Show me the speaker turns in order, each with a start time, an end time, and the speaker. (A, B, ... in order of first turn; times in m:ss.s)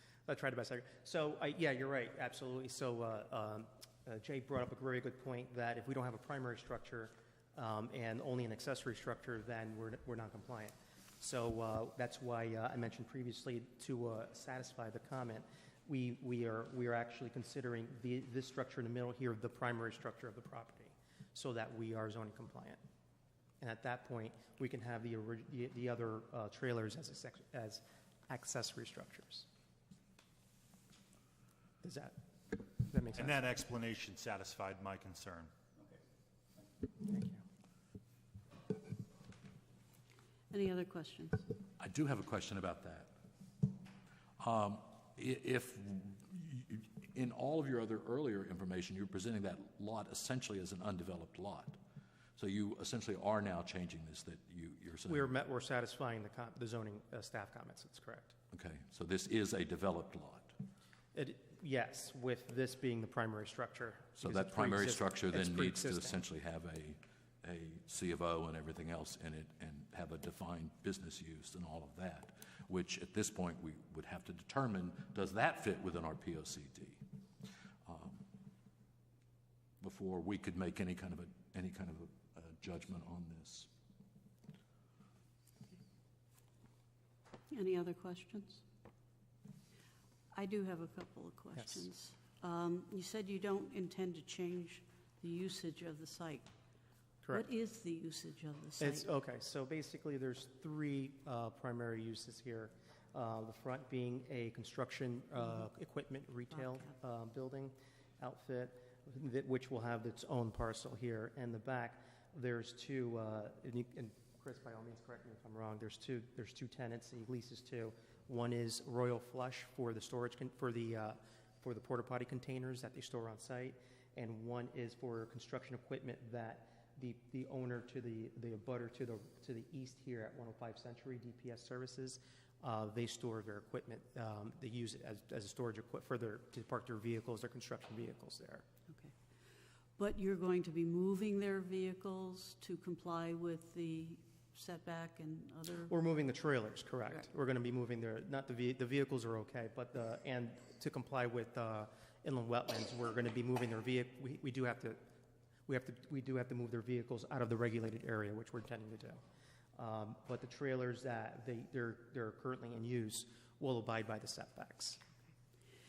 0:00.3-0:22.8 A
0:23.6-0:29.5 A
0:31.8-0:32.2 A
0:32.8-0:33.4 A
0:33.1-0:35.5 B
0:37.0-0:37.4 A
0:40.5-0:41.5 C
0:41.8-0:43.1 D
0:44.4-0:51.8 D
0:52.4-0:55.3 D
0:55.1-0:58.3 A
0:58.5-1:00.5 D
1:01.1-1:06.2 A
1:04.2-1:17.0 D
1:17.8-1:18.2 D
1:19.8-1:23.7 D
1:27.5-1:28.6 C
1:30.3-1:36.5 C
1:37.3-1:39.1 C
1:38.8-2:18.6 A
2:20.0-2:25.9 C
2:25.9-2:35.0 A
2:35.7-2:39.2 A
2:39.8-2:45.0 A